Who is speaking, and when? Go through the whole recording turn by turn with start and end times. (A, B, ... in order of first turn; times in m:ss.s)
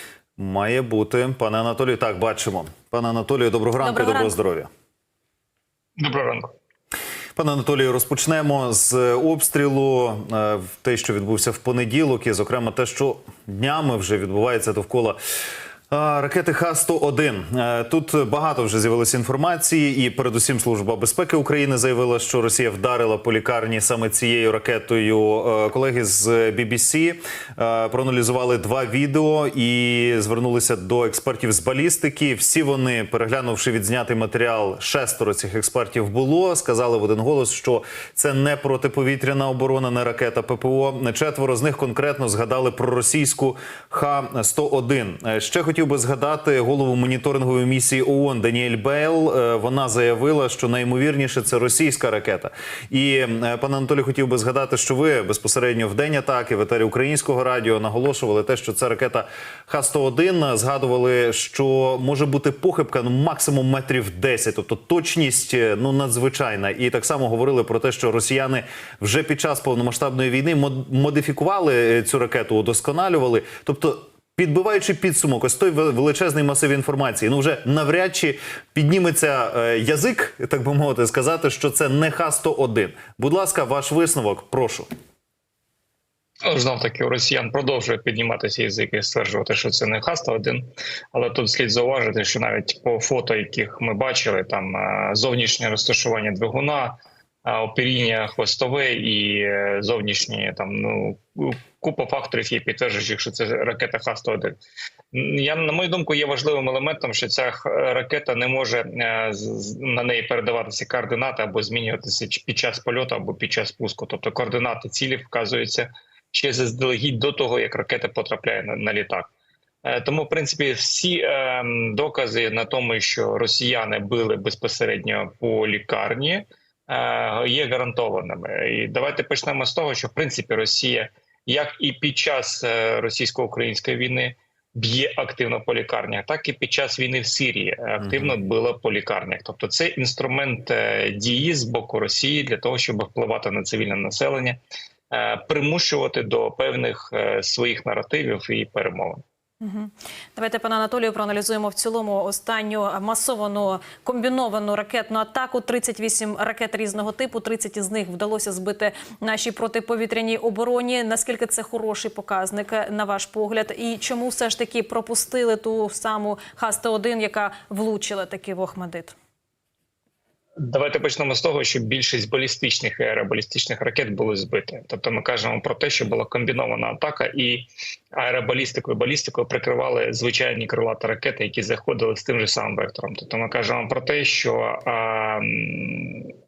0:00.4-0:04.7 A
0:03.8-0:04.3 B
0:06.0-0:06.5 C
0:07.4-0:15.2 A
0:15.9-1:24.9 A
1:26.4-1:44.6 C
1:45.1-1:59.3 C
1:59.8-2:29.2 C
2:18.0-2:18.3 A
2:29.6-2:49.1 B
2:50.6-3:06.3 C